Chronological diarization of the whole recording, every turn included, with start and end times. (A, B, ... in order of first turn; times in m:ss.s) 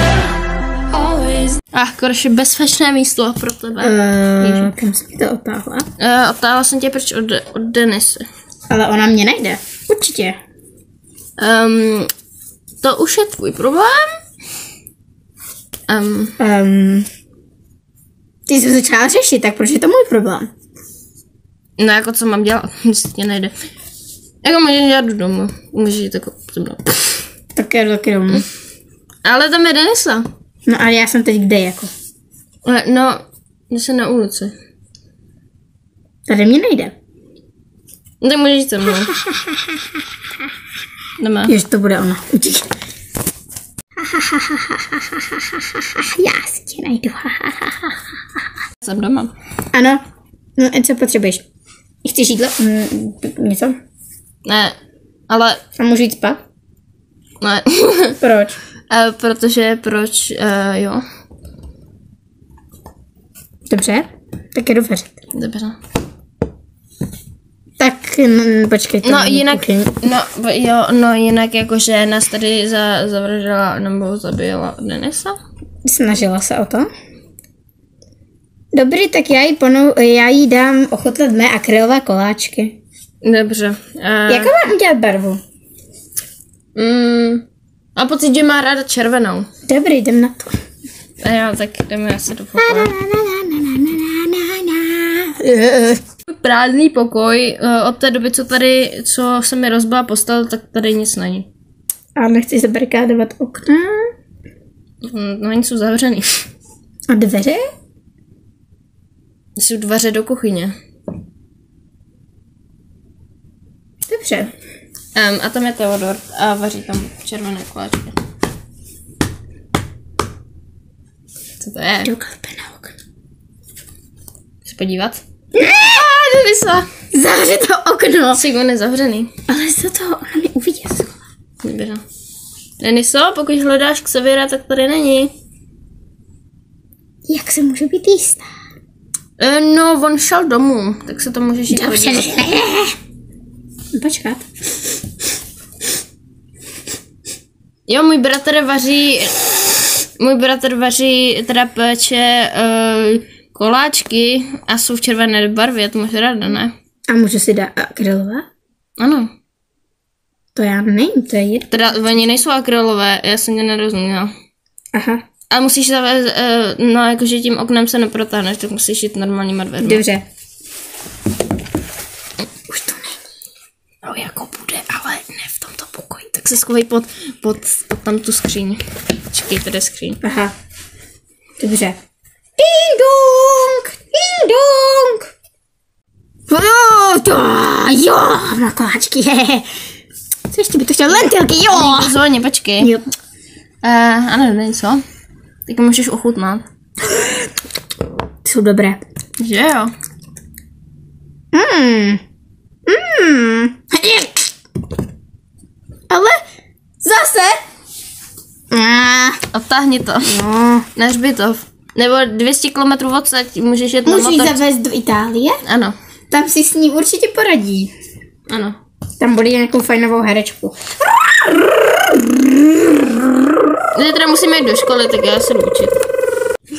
0:00.9-0:04.7 A
0:03.8-0:05.9 B
0:06.0-0:08.2 A
0:08.7-0:10.4 B
0:11.4-0:12.1 A
0:12.8-0:14.2 A
0:15.9-0:16.4 A
0:16.4-0:17.1 B
0:18.5-0:20.5 B
0:21.8-0:23.5 A
0:24.4-0:27.2 A
0:27.6-0:28.4 B
0:29.2-0:30.3 A
0:30.6-0:31.9 B
0:32.6-0:34.5 A
0:36.3-0:36.9 B
0:38.2-0:39.2 A
0:39.0-0:39.8 B
0:41.2-0:41.5 A
0:41.5-0:42.7 B
0:44.0-0:48.0 B
0:48.8-0:49.3 A
0:49.7-0:50.0 B
0:50.6-0:51.4 B
0:52.0-0:53.8 B
0:54.4-0:54.7 A
0:55.3-0:55.6 A
0:55.8-0:56.4 B
0:57.4-0:58.2 A
0:58.2-0:58.6 B
0:58.9-1:01.0 A
1:03.7-1:05.2 B
1:05.3-1:05.8 A
1:07.8-1:10.0 B
1:09.0-1:15.4 A
1:15.8-1:16.9 B
1:18.7-1:22.7 B
1:23.2-1:24.5 A
1:24.3-1:25.4 B
1:26.8-1:27.4 A
1:28.0-1:29.5 A
1:29.7-1:30.6 B
1:31.2-1:33.0 A
1:32.6-1:36.0 B
1:36.3-1:41.5 A
1:42.2-1:44.1 B
1:45.1-1:46.4 A
1:47.1-1:47.6 B
1:49.6-1:50.7 A
1:54.1-1:54.5 B
1:55.1-1:58.1 A
2:01.6-2:02.1 A
2:02.0-2:02.9 B
2:04.6-2:05.2 A
2:05.5-2:06.0 B
2:05.8-2:06.8 A
2:07.1-2:08.4 B
2:08.3-2:09.3 A
2:09.5-2:11.2 B
2:11.6-2:12.0 A
2:12.8-2:15.3 A
2:17.3-2:18.4 B
2:19.4-2:22.3 A
2:21.7-2:22.9 B
2:23.9-2:24.4 B
2:27.9-2:29.5 A
2:30.2-2:36.7 A
2:37.1-2:38.4 B
2:39.0-2:39.3 A
2:40.5-2:42.0 B
2:41.7-2:44.3 A
2:44.9-2:45.2 B
2:45.5-2:50.0 A
2:49.8-2:50.2 B
2:52.7-2:53.2 B
2:54.0-3:00.2 A
3:00.2-3:00.5 B
3:01.6-3:02.0 B
3:02.6-3:05.3 B
3:06.5-3:09.6 B
3:10.5-3:12.2 B
3:11.7-3:13.0 A
3:13.8-3:15.0 A
3:15.7-3:16.6 A
3:18.4-3:19.0 B
3:19.4-3:19.9 A
3:21.5-3:22.2 B
3:22.9-3:24.5 B
3:26.1-3:26.4 B
3:27.0-3:27.6 B
3:28.7-3:29.4 B
3:29.5-3:30.4 A
3:30.2-3:30.8 B
3:30.9-3:34.6 A
3:34.0-3:35.6 B
3:35.6-3:36.0 A
3:36.3-3:37.9 B
3:38.5-3:38.8 A
3:39.2-3:43.3 B
3:43.9-3:46.0 A